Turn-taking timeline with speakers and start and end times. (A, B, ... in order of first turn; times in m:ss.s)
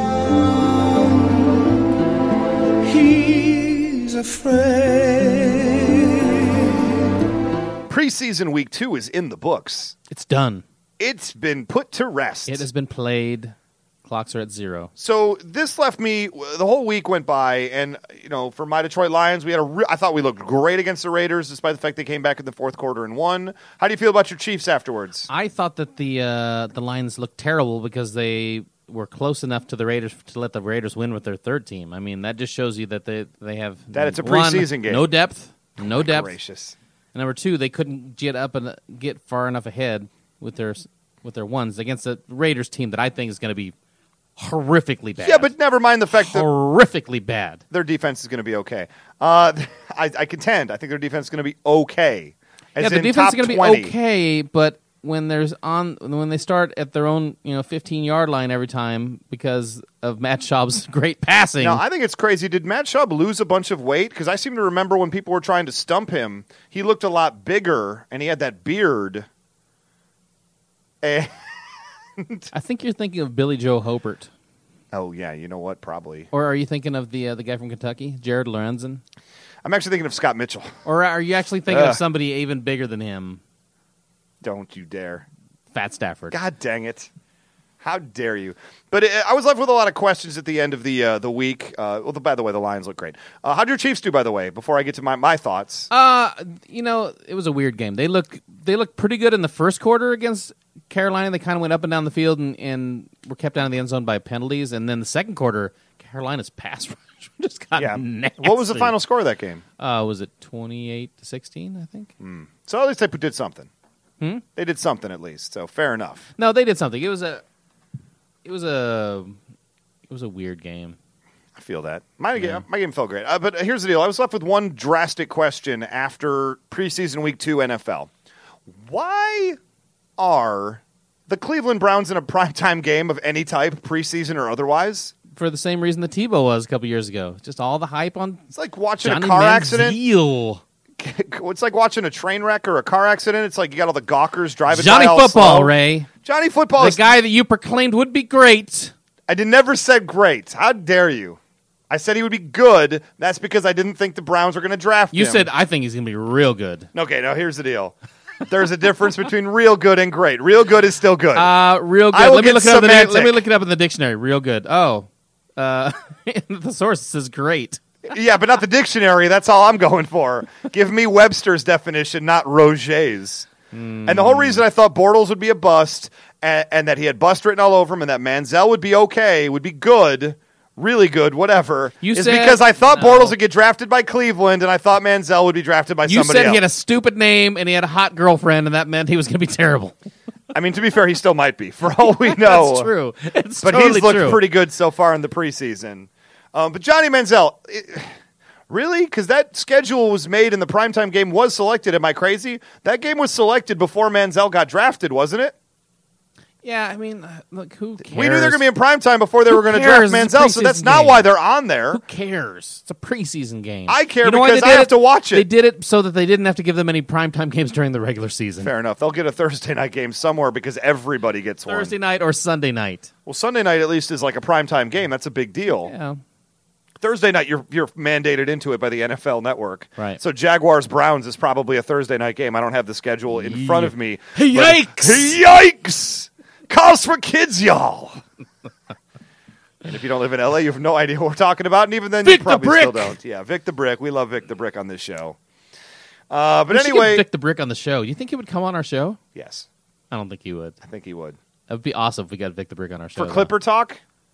0:02.8-0:06.8 A
0:07.9-0:10.0 B
0:10.1-0:10.6 C
0:11.0-0:12.7 B
0:12.5-0:14.9 C
0:15.0-0:25.3 B
0:25.3-0:36.3 C
0:33.9-0:35.1 B
0:35.8-0:36.8 B
0:37.1-0:43.7 C
0:44.4-0:45.5 C
0:45.2-0:46.5 B
0:46.2-0:47.6 C
0:47.7-0:53.9 B
0:52.8-1:01.8 C
1:01.6-1:09.3 B
1:11.0-1:11.5 B
1:12.2-1:12.5 B
1:12.5-1:14.3 C
1:14.9-1:16.3 B
1:16.3-1:19.0 C
1:19.6-1:20.7 B
1:20.8-1:23.4 C
1:21.7-1:22.0 B
1:24.4-1:25.2 B
1:25.7-1:26.4 C
1:26.3-1:27.1 B
1:27.8-1:35.9 B
1:35.9-1:49.0 C
1:47.8-1:49.6 B
1:49.8-1:52.1 C
1:52.2-1:53.7 B
1:54.6-1:56.3 B
1:56.4-1:57.4 C
1:58.4-1:59.4 C
2:00.1-2:01.0 C
2:01.6-2:08.1 B
2:02.4-2:02.6 C
2:08.8-2:09.6 B
2:10.2-2:15.1 B
2:15.3-2:18.4 C
2:18.5-2:20.0 B
2:19.0-2:20.6 C
2:21.0-2:27.1 B
2:24.7-2:26.1 C
2:26.8-2:28.9 C
2:29.3-2:31.4 B
2:31.9-2:35.5 B
2:35.1-2:36.9 C
2:36.9-2:38.0 B
2:38.5-2:41.5 B
2:41.4-2:47.8 C
2:42.1-2:43.4 B
2:48.1-2:53.5 B
2:53.7-2:54.6 C
2:54.1-3:06.6 B
3:02.0-3:03.4 C
3:06.0-3:10.0 C
3:10.5-3:12.9 B
3:12.2-3:14.4 C
3:13.6-3:18.1 B
3:18.7-3:25.6 B
3:26.6-3:28.6 C
3:28.0-3:32.0 B
3:29.5-3:31.3 C
3:31.9-3:38.7 C
3:33.9-3:35.5 B
3:38.6-3:41.9 B
3:41.7-3:43.1 C
3:43.3-3:45.9 B
3:45.8-3:46.2 C
3:47.0-3:58.2 B
3:53.3-3:55.4 C
3:59.8-4:05.4 B
4:02.2-4:03.2 C
4:06.3-4:07.2 B
4:06.7-4:09.2 C
4:09.4-4:09.7 B
4:10.1-4:10.8 C
4:10.8-4:11.4 B
4:11.7-4:13.5 C
4:13.2-4:14.0 B